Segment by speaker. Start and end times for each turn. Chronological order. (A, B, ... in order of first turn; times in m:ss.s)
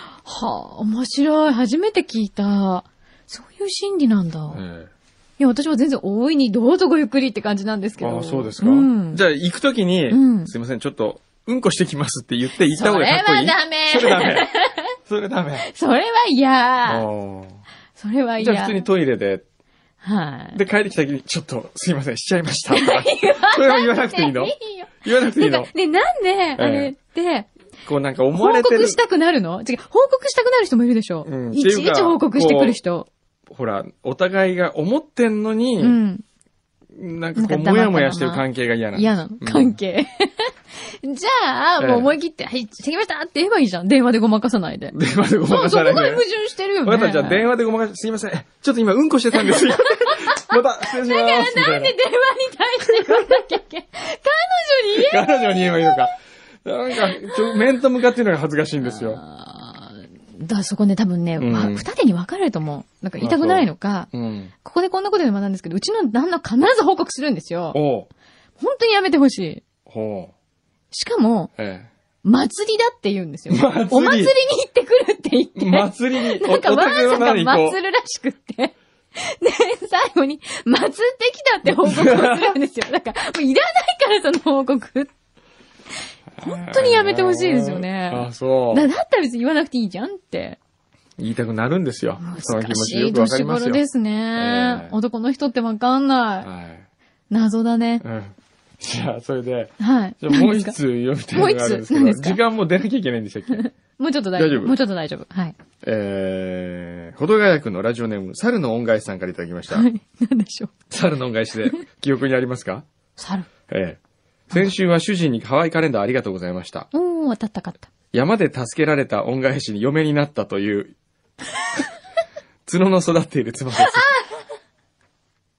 0:00.2-0:04.6 A
0:04.5-0:04.9 B
0:05.4-0:09.2 A
0:08.0-0:14.5 B
0:10.1-0:10.5 A
0:12.7-0:14.9 A
0:15.0-0:15.7 B
0:15.6-0:17.1 A
0:16.8-0:17.6 B
0:18.0-0:18.8 A
0:18.4-0:19.4 B
0:20.0-0:20.6 A
0:20.5-0:25.7 B
0:22.7-0:27.5 A
0:26.6-0:26.9 B
0:27.8-0:29.0 B
0:28.3-0:33.1 A
0:31.2-0:32.8 B
0:33.5-0:36.0 B
0:35.8-0:36.2 A
0:36.9-0:39.7 B
0:37.4-0:45.0 A
0:41.8-0:42.1 B
0:44.9-0:46.2 B
0:45.5-0:47.5 A
0:46.8-0:51.9 B
0:49.5-0:56.1 A
0:55.0-0:56.1 B
0:56.6-0:59.2 B
0:57.0-0:57.6 A
0:58.8-1:04.1 A
1:01.4-1:01.9 B
1:03.2-1:04.5 B
1:04.6-1:07.8 A
1:07.7-1:08.1 B
1:08.6-1:09.6 A
1:09.8-1:10.3 B
1:10.9-1:11.5 A
1:11.6-1:11.9 B
1:12.2-1:25.1 A
1:13.5-1:14.3 B
1:15.6-1:17.8 B
1:21.6-1:22.5 B
1:26.3-1:28.9 B
1:26.4-1:30.6 A
1:31.2-1:33.8 B
1:32.2-1:36.5 A
1:34.4-1:34.9 B
1:36.4-1:36.8 B
1:37.3-1:38.0 A
1:38.0-1:43.6 B
1:39.8-1:40.8 A
1:41.3-1:42.4 A
1:43.5-1:45.6 A
1:44.4-1:44.8 B
1:45.8-1:49.9 B
1:49.7-1:50.7 A
1:50.9-1:52.8 B
1:53.2-1:53.5 A
1:53.7-1:54.0 B
1:54.5-1:56.9 B
1:56.9-1:57.9 A
1:58.1-2:00.9 B
2:02.7-2:04.1 B
2:03.8-2:04.3 A